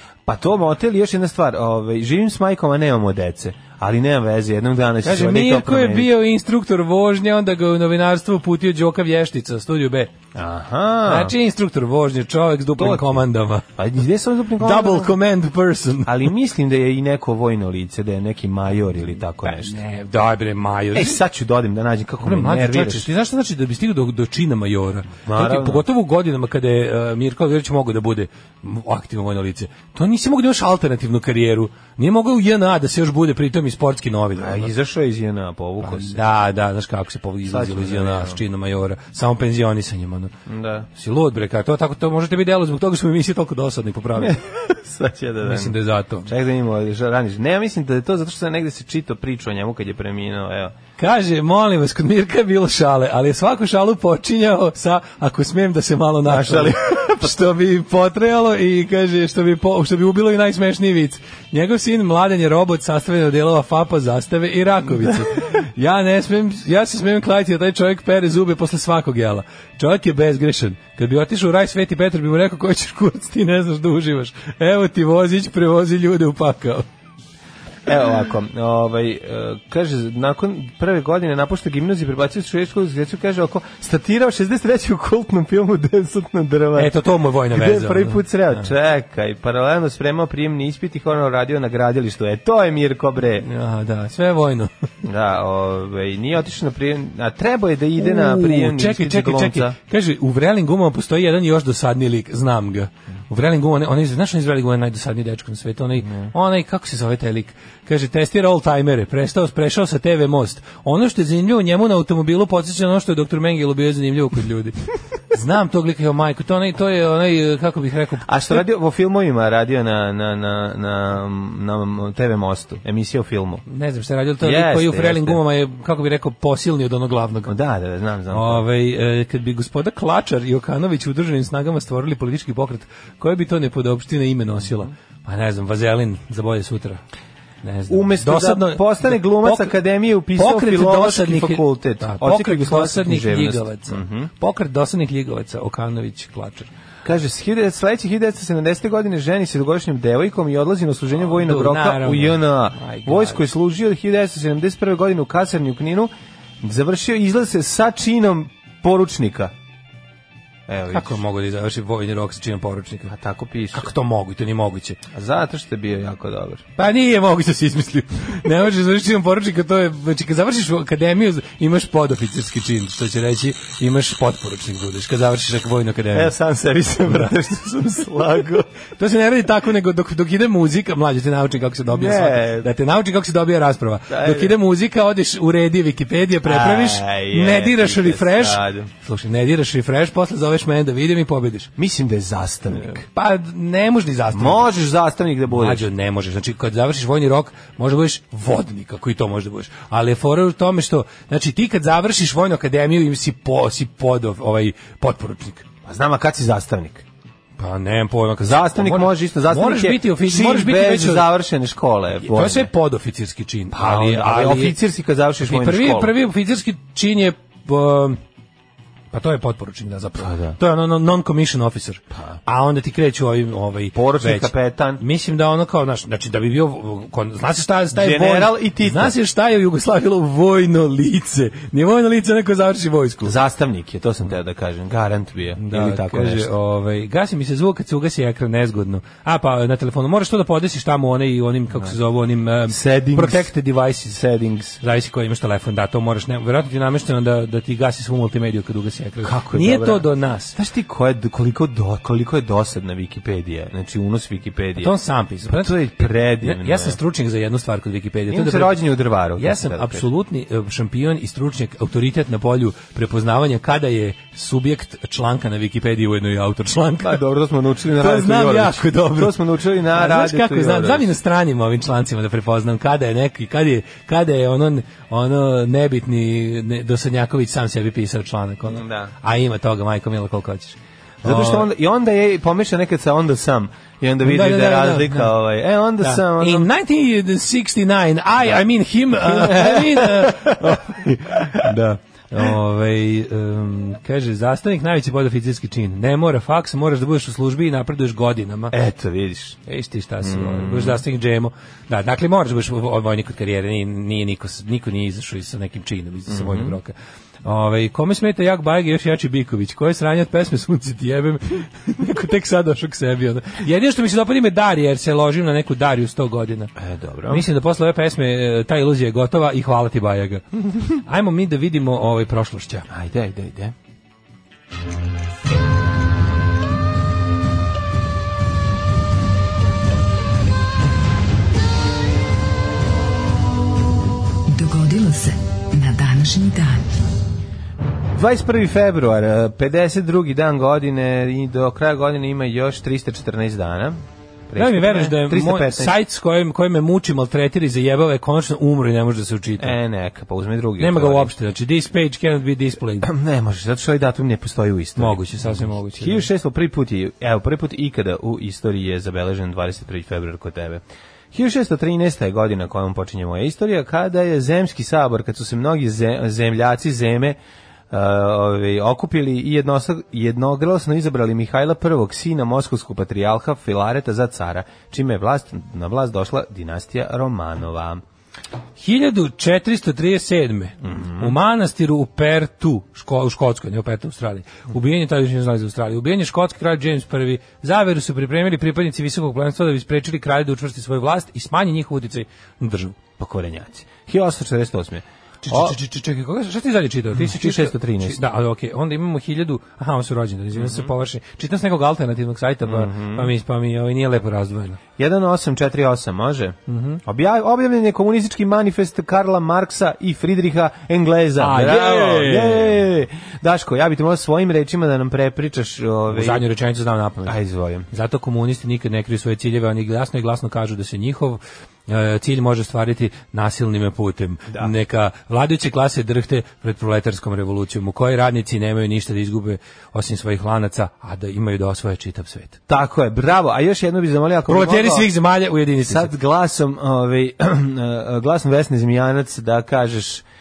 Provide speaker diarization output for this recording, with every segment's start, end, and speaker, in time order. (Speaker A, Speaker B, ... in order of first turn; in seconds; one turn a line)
Speaker A: 0.3-6.1
Speaker B: 5.0-10.1
Speaker A: 10.3-11.3
Speaker B: 11.1-13.7
Speaker A: 12.8-13.2
Speaker A: 13.8-15.2
Speaker B: 14.6-16.2
Speaker A: 16.1-19.8
Speaker B: 19.5-21.2
Speaker A: 20.9-23.1
Speaker B: 22.2-34.7
Speaker A: 25.3-25.8
Speaker A: 34.4-36.2
Speaker B: 35.8-40.3
Speaker A: 37.5-38.4
Speaker A: 40.5-40.9
Speaker B: 40.9-44.4
Speaker A: 44.2-50.8
Speaker B: 45.4-46.3
Speaker B: 51.0-76.8
Speaker A: 56.3-57.5
Speaker A: 77.9-93.5
Speaker B: 86.8-88.7
Speaker B: 93.4-94.7
Speaker A: 95.0-99.8
Speaker B: 98.0-114.8
Speaker A: 106.0-106.3
Speaker B: 115.3-118.3
Speaker A: 118.3-123.6
Speaker B: 123.7-127.5
Speaker A: 124.4-125.4
Speaker A: 127.5-128.6
Speaker B: 128.3-137.0
Speaker B: 137.6-139.8
Speaker A: 137.9-144.3
Speaker B: 140.3-146.7
Speaker A: 147.1-156.1
Speaker B: 151.3-153.4
Speaker A: 156.6-159.5
Speaker A: 160.7-161.2
Speaker B: 160.9-163.1
Speaker A: 163.1-163.9
Speaker B: 163.7-165.0
Speaker A: 165.1-166.6
Speaker B: 166.8-176.3
Speaker A: 176.1-178.7
Speaker B: 179.0-191.7
Speaker A: 181.9-182.7
Speaker A: 184.1-184.6
Speaker A: 186.4-188.9
Speaker A: 191.8-193.0
Speaker B: 192.8-194.7
Speaker A: 194.3-195.9
Speaker B: 195.5-205.7
Speaker A: 205.8-207.0
Speaker B: 207.6-211.3
Speaker A: 208.4-212.7
Speaker B: 212.2-214.8
Speaker A: 213.7-216.2
Speaker B: 215.4-218.2
Speaker B: 219.1-233.3
Speaker A: 220.2-220.6
Speaker A: 223.9-225.0
Speaker A: 227.9-229.2
Speaker A: 233.2-236.5
Speaker B: 235.6-244.2
Speaker A: 242.7-243.5
Speaker A: 244.1-244.8
Speaker B: 244.8-250.6
Speaker A: 249.2-257.0
Speaker B: 254.8-258.8
Speaker A: 258.3-260.1
Speaker B: 259.4-267.2
Speaker A: 267.0-271.1
Speaker B: 268.0-269.4
Speaker B: 269.9-281.7
Speaker A: 278.7-279.1
Speaker A: 281.2-286.7
Speaker B: 284.2-285.3
Speaker B: 286.0-298.8
Speaker A: 289.1-291.8
Speaker A: 298.7-299.6
Speaker B: 299.7-306.9
Speaker A: 300.2-301.0
Speaker A: 306.3-306.8
Speaker B: 307.4-316.7
Speaker A: 316.8-317.5
Speaker B: 317.3-322.9
Speaker A: 322.9-323.8
Speaker C: 334.5-336.9
Speaker A: 338.1-346.0
Speaker B: 344.6-349.8
Speaker A: 349.6-351.3
Speaker B: 350.8-353.1
Speaker A: 353.0-367.4
Speaker B: 355.0-356.3
Speaker A: 367.9-378.0
Speaker B: 378.8-393.0
Speaker A: 380.8-381.4
Speaker A: 393.2-395.8
Speaker B: 395.4-404.8
Speaker A: 397.1-398.2
Speaker A: 400.5-400.9
Speaker A: 402.6-403.3
Speaker A: 405.0-416.4
Speaker B: 406.7-407.0
Speaker B: 411.4-412.9
Speaker B: 416.1-417.4
Speaker A: 417.2-417.9
Speaker B: 417.9-432.6
Speaker A: 432.7-435.1
Speaker B: 434.5-436.1
Speaker A: 435.9-440.2